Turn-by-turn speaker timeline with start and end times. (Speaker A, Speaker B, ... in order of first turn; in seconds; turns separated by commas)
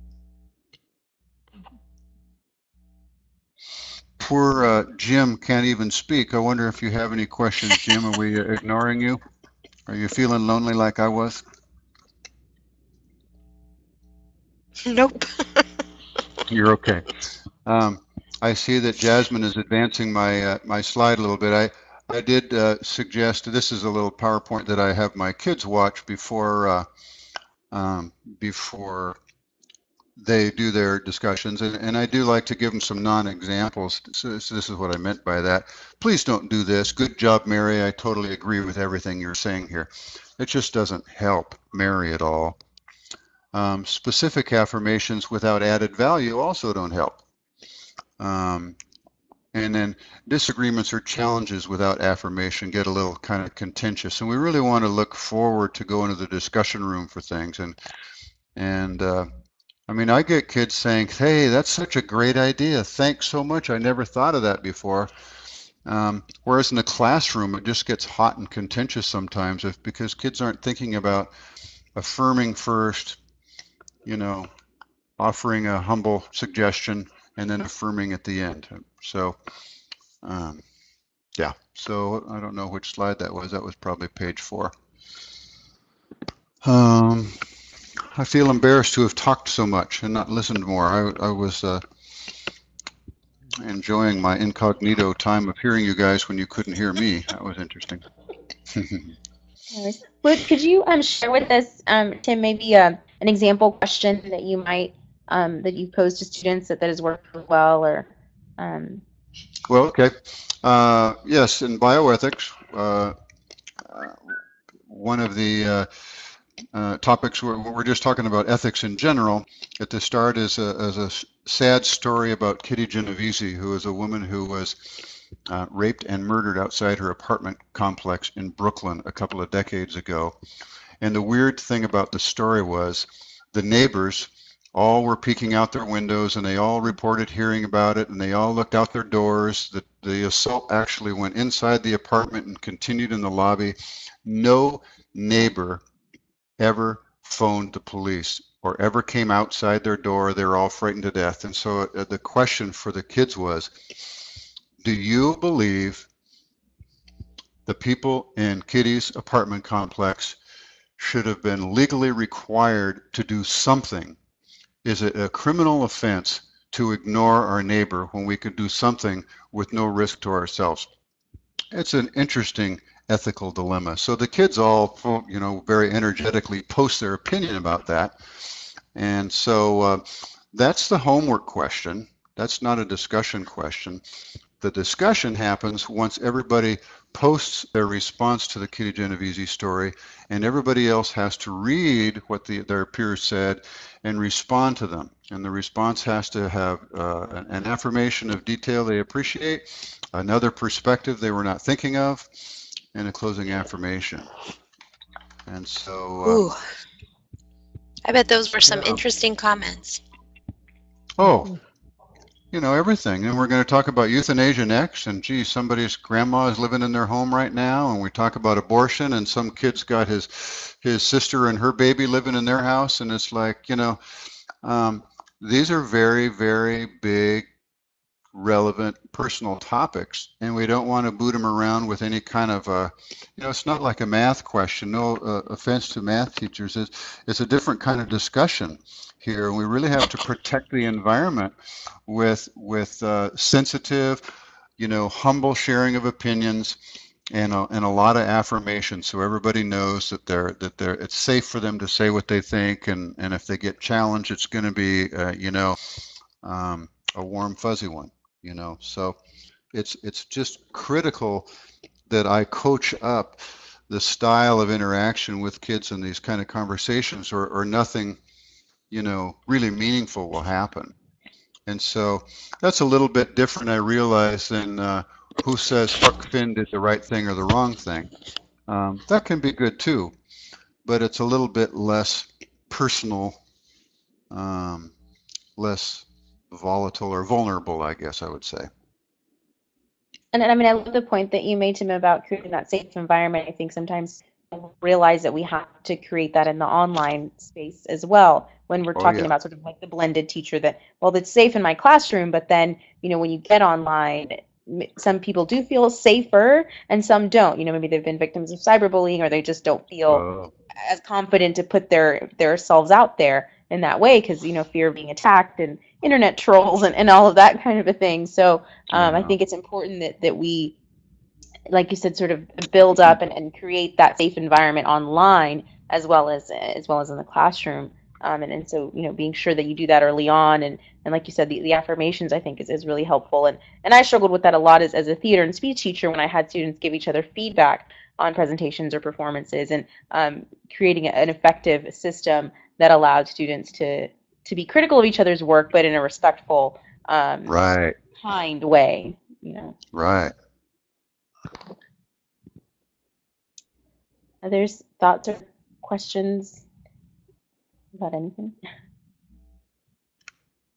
Speaker A: 4.2-9.2, Speaker A: 9.9-11.4, Speaker B: 14.8-15.7, Speaker A: 16.5-17.1, Speaker A: 17.6-26.9, Speaker A: 27.7-29.2, Speaker A: 30.1-42.6, Speaker A: 43.5-47.2, Speaker A: 48.2-48.8, Speaker A: 49.5-57.8, Speaker A: 58.5-59.3, Speaker A: 59.9-65.1, Speaker A: 65.8-71.3, Speaker A: 71.9-73.2, Speaker A: 74.0-74.5, Speaker A: 75.2-79.4, Speaker A: 80.2-80.6, Speaker A: 81.3-84.7, Speaker A: 86.6-87.5, Speaker A: 88.1-91.8, Speaker A: 93.6-98.0, Speaker A: 98.7-99.1, Speaker C: 99.7-109.0, Speaker A: 109.7-113.1, Speaker A: 113.8-115.9, Speaker A: 116.7-130.4, Speaker A: 131.0-145.8, Speaker A: 146.6-154.2, Speaker A: 154.8-156.1, Speaker A: 157.7-160.4, Speaker A: 161.0-164.2, Speaker A: 164.8-170.9, Speaker A: 171.7-184.0, Speaker A: 184.6-204.3, Speaker A: 205.4-206.5, Speaker B: 206.2-206.6, Speaker B: 208.0-210.0, Speaker A: 208.7-209.0, Speaker A: 211.2-211.5, Speaker A: 212.5-224.0, Speaker A: 224.6-227.5, Speaker A: 228.3-241.5, Speaker A: 242.1-244.2, Speaker A: 244.8-246.8, Speaker A: 247.3-259.2, Speaker A: 259.7-261.5, Speaker A: 262.1-268.2, Speaker A: 268.9-270.9, Speaker A: 271.7-278.1, Speaker A: 278.7-280.1, Speaker A: 280.8-283.4, Speaker A: 284.3-284.9, Speaker A: 285.6-288.7, Speaker C: 290.3-310.2, Speaker A: 298.9-299.3, Speaker A: 310.1-310.5, Speaker C: 310.8-320.8, Speaker A: 318.9-319.3, Speaker C: 321.7-347.5, Speaker A: 347.4-348.0, Speaker C: 348.2-349.8, Speaker A: 349.9-350.3, Speaker C: 354.4-356.6, Speaker C: 357.9-358.6